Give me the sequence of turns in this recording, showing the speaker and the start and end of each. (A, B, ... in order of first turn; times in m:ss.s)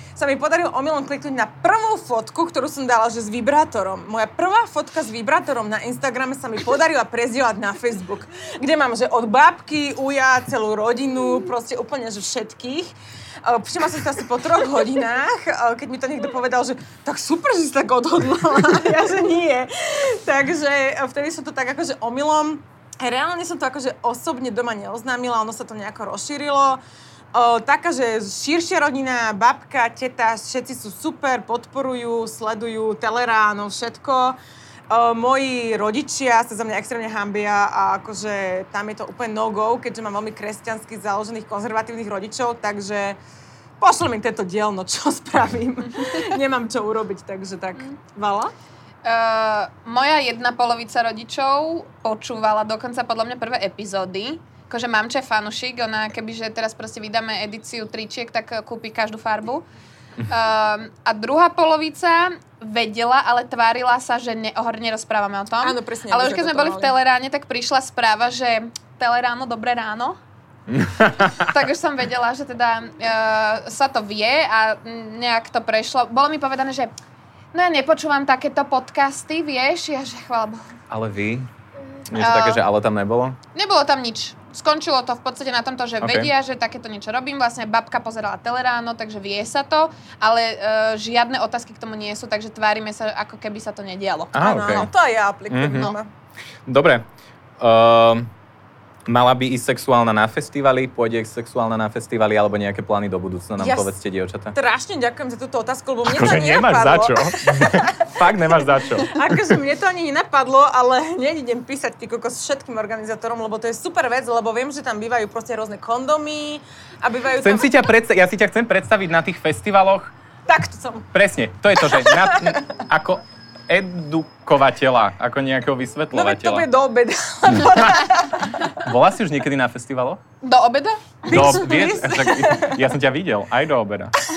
0:00.2-0:12.9 A
0:13.4-0:26.8 A
0:27.3-0:34.4 A
0:34.9-0:43.2 A
0:43.8-0:48.5 A
0:49.0-0:59.7 B
1:00.3-1:10.2 B
1:05.6-1:06.9 A
1:10.7-1:11.5 C
1:11.4-1:16.9 B
1:17.5-1:20.6 B
1:20.9-1:21.5 C
1:22.1-1:23.4 C
1:22.1-1:22.6 B
1:23.5-1:34.4 B
1:26.0-1:26.3 C
1:34.3-1:34.9 C
1:34.4-1:36.1 A
1:35.5-1:35.9 C
1:36.7-1:37.1 C
1:37.6-1:38.3 C
1:39.1-1:44.6 C
1:43.6-1:43.9 A
1:44.5-1:48.2 A
1:46.0-1:49.4 C
1:49.1-1:57.8 A
1:57.4-2:00.1 C
2:00.5-2:01.1 A
2:01.1-2:06.7 C
2:02.0-2:02.6 A
2:06.1-2:08.6 A
2:08.8-2:10.2 C
2:10.4-2:11.5 B
2:11.3-2:12.8 A
2:11.3-2:14.1 C